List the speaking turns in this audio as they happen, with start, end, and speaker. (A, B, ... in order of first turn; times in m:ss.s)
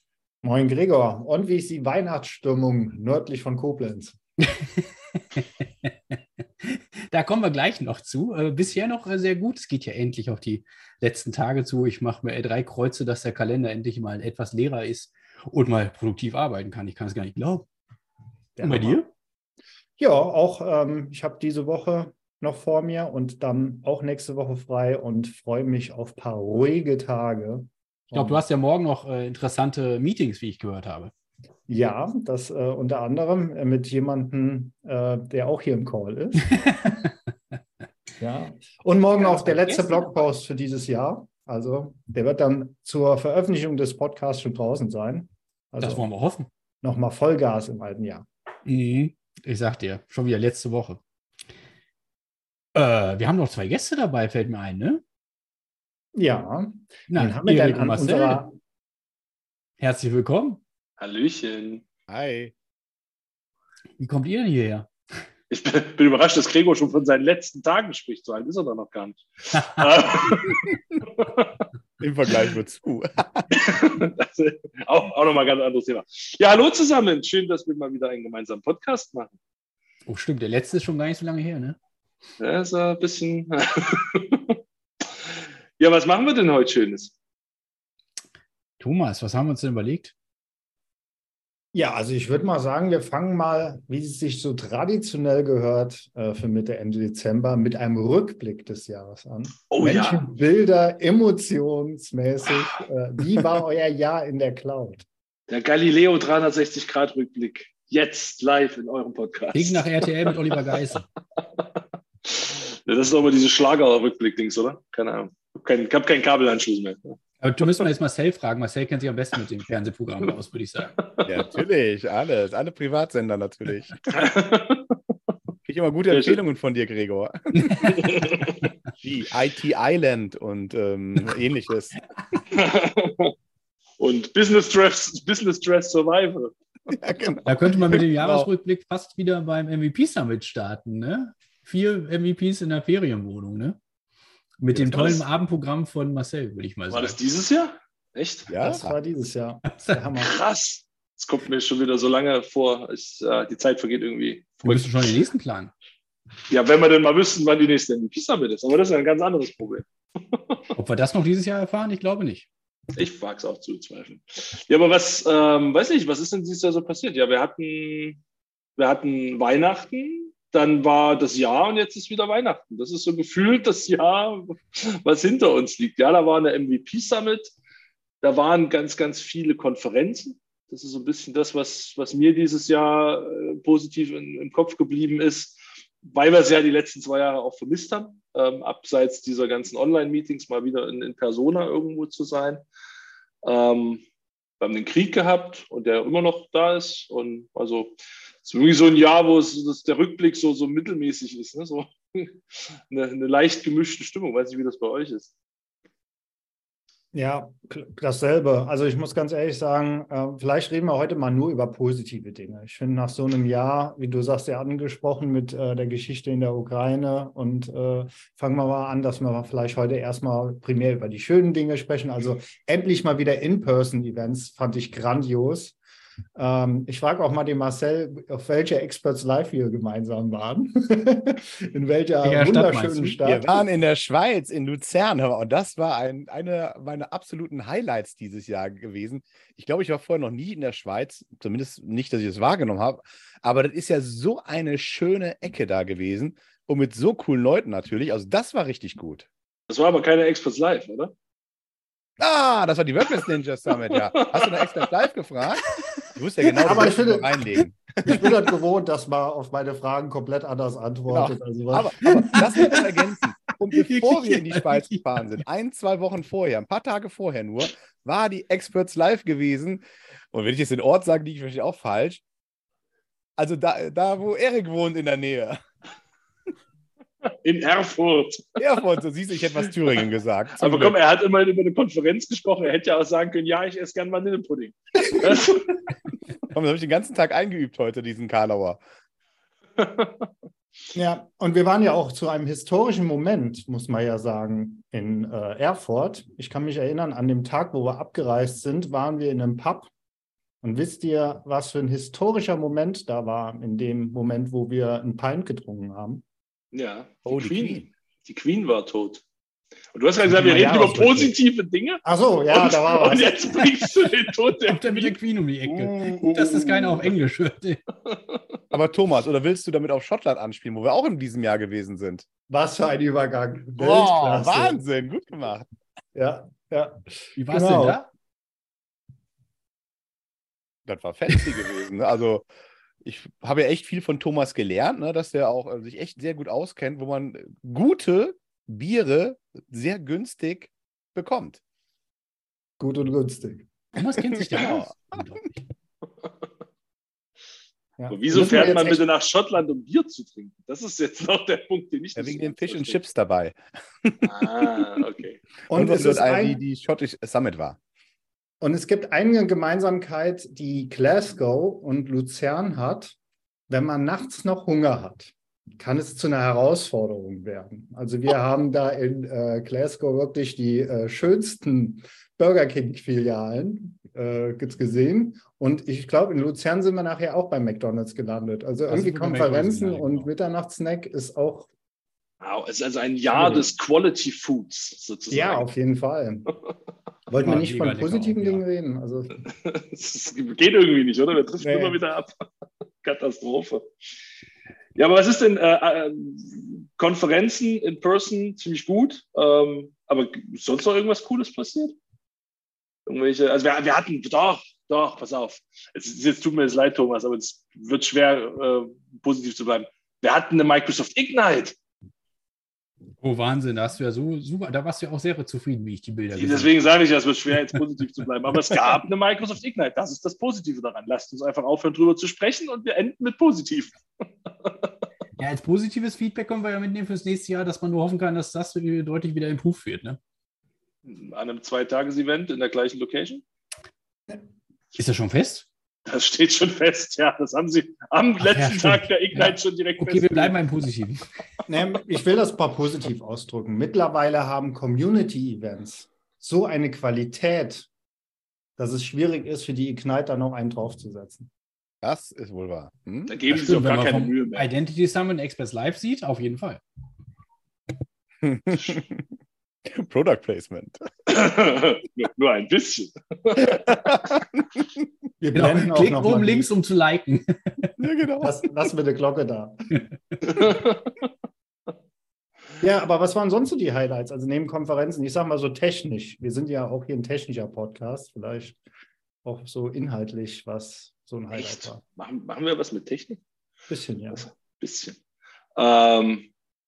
0:00.4-0:04.2 A
0:05.4-0:17.7 B
0:18.6-0:19.0 A
0:18.6-0:19.1 B
0:20.0-0:28.4 A
0:28.1-0:31.1 B
0:31.7-0:36.8 A
0:36.7-0:37.1 B
0:38.2-0:46.1 A
0:39.2-0:40.2 B
0:45.8-0:46.5 B
0:46.8-0:48.3 A
0:48.6-0:51.0 B
0:52.8-0:55.0 B
0:56.2-0:58.6 A
0:57.1-0:58.4 B
0:59.8-1:00.6 B
1:01.0-1:01.8 C
1:02.1-1:02.5 D
1:04.0-1:04.9 B
1:05.5-1:11.6 C
1:12.0-1:13.5 D
1:13.5-1:19.4 C
1:20.1-1:21.8 B
1:22.4-1:24.6 C
1:25.3-1:27.2 C
1:28.8-1:30.1 B
1:31.7-1:45.0 A
1:39.7-1:40.3 C
1:42.5-1:42.8 C
1:45.5-1:50.6 C
1:49.5-1:51.0 B
1:51.4-1:57.8 C
1:57.4-2:00.9 B
2:01.0-2:01.4 C
2:01.3-2:04.0 D
2:04.1-2:05.0 C
2:05.7-2:08.5 D
2:06.1-2:06.4 C
2:07.6-2:08.1 B
2:08.0-2:08.6 C
2:09.0-2:12.0 D
2:12.5-2:13.3 C
2:14.0-2:17.0 C
2:16.9-2:18.5 D
2:17.5-2:23.8 B
2:24.6-2:27.2 B
2:24.9-2:25.2 C
2:26.9-2:28.5 C
2:28.5-2:29.0 D
2:28.6-2:30.3 A
2:29.7-2:30.0 B
2:30.2-2:35.2 C
2:34.6-2:35.7 B
2:36.5-2:40.6 C
2:40.8-2:42.5 B
2:43.0-2:48.2 C
2:48.8-2:57.5 C
2:58.2-3:12.6 C
3:13.4-3:14.0 C
3:14.6-3:17.9 C
3:18.4-3:25.3 C
3:27.1-3:45.8 A
3:46.4-3:53.4 A
3:52.2-3:53.2 B
3:53.2-4:09.3 D
4:09.7-4:11.1 C
4:12.2-4:18.3 D
4:13.8-4:14.9 C
4:16.6-4:17.4 A
4:18.1-4:22.8 A
4:21.1-4:32.2 D
4:22.2-4:23.0 B
4:23.7-4:25.0 B
4:33.4-4:35.6 D
4:37.2-4:38.6 C
4:38.6-4:41.0 D
4:40.6-4:45.8 C
4:46.5-4:48.8 D
4:49.8-4:50.3 C
4:50.9-4:59.9 A
5:00.6-5:06.2 A
5:06.7-5:09.2 C
5:07.3-5:07.9 D
5:10.0-5:15.2 C
5:10.2-5:11.4 A
5:12.0-5:13.6 A
5:14.6-5:17.8 B
5:15.7-5:17.2 D
5:18.1-5:18.4 C
5:18.7-5:22.2 D
5:22.5-5:24.8 A
5:23.8-5:25.7 D
5:26.1-5:28.0 A
5:27.4-5:28.1 B
5:30.9-5:32.5 D
5:33.0-5:41.6 D
5:42.8-5:43.7 A
5:43.9-5:45.6 B
5:44.3-5:45.0 D
5:48.0-5:49.0 A
5:48.1-5:53.0 C
5:52.2-5:54.8 D
5:54.2-5:55.4 C
5:55.7-5:56.6 A
5:55.7-5:57.8 D
5:58.6-6:03.2 A
6:03.7-6:21.7 A
6:18.9-6:20.3 B
6:22.4-6:25.7 C
6:23.3-6:23.7 A
6:25.3-6:26.5 A
6:27.3-6:29.4 A
6:27.4-6:28.6 B
6:29.4-6:32.4 C
6:31.6-6:32.0 A
6:33.0-6:33.9 C
6:35.0-6:42.0 C
6:43.1-6:51.8 C
6:53.2-6:56.8 B
6:56.3-7:04.9 C
7:05.4-7:10.2 B
7:11.0-7:13.4 C
7:15.0-7:15.7 B
7:16.1-7:20.6 C
7:18.4-7:21.3 B
7:21.7-7:27.9 A
7:28.8-7:31.5 A
7:32.0-7:33.3 D
7:33.3-7:34.7 C
7:33.5-7:36.8 B
7:38.4-7:39.3 D
7:39.9-7:41.0 D
7:41.3-7:44.3 C
7:43.6-7:44.4 D
7:45.4-7:46.7 A
7:45.5-7:47.9 B
7:48.0-7:48.6 D
7:48.4-7:50.0 A
7:50.4-7:51.2 C
7:52.8-7:58.8 A
7:59.4-8:02.0 A
8:01.5-8:03.4 C
8:03.9-8:04.5 A
8:04.3-8:05.2 C
8:05.8-8:06.5 C